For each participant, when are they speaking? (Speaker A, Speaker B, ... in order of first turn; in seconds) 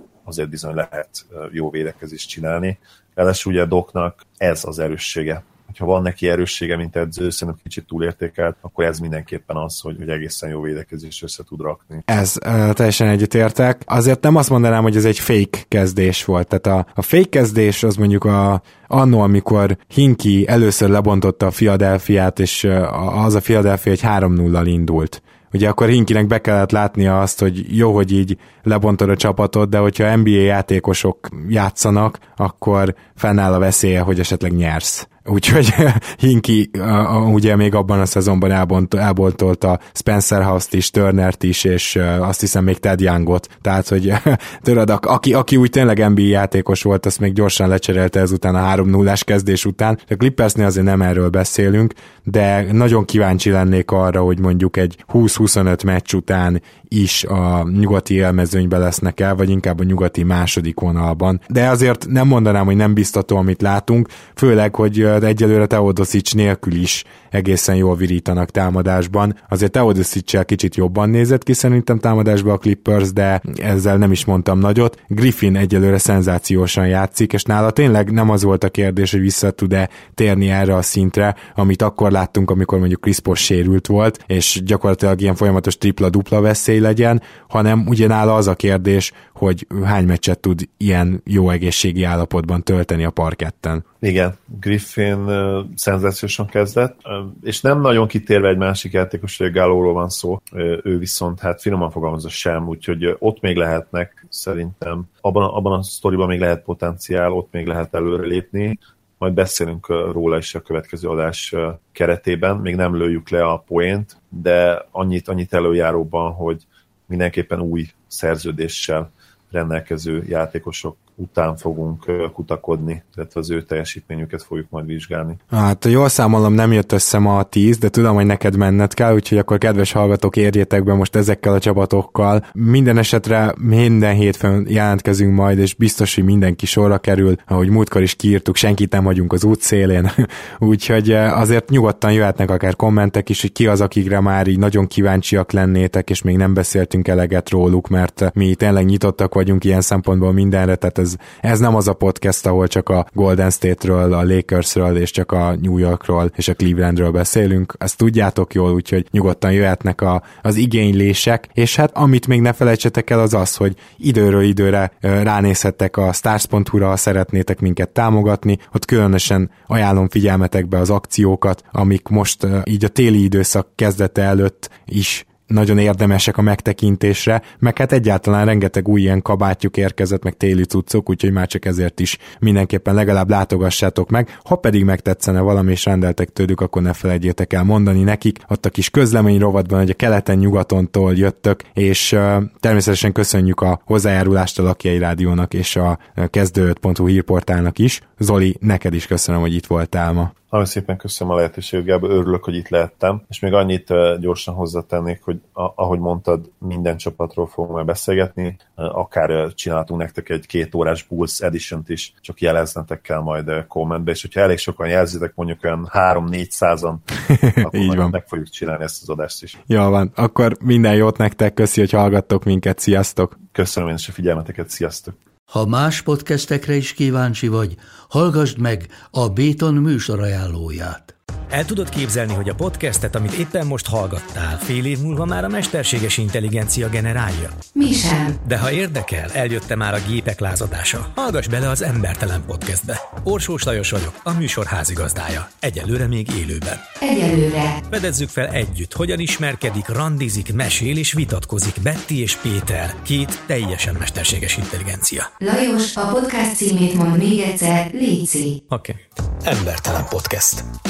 Speaker A: 0.2-12.1, 94.0-125.4, 200.5-217.0, 217.6-219.6, 223.5-225.2
Speaker B: 12.1-93.8, 125.5-200.3, 217.3-218.1, 219.7-223.3
Speaker C: 225.5-231.1
Speaker D: 231.5-237.6, 238.4-246.9, 247.9-255.3, 258.7-260.7
Speaker E: 237.7-238.3, 247.0-247.8, 255.4-258.6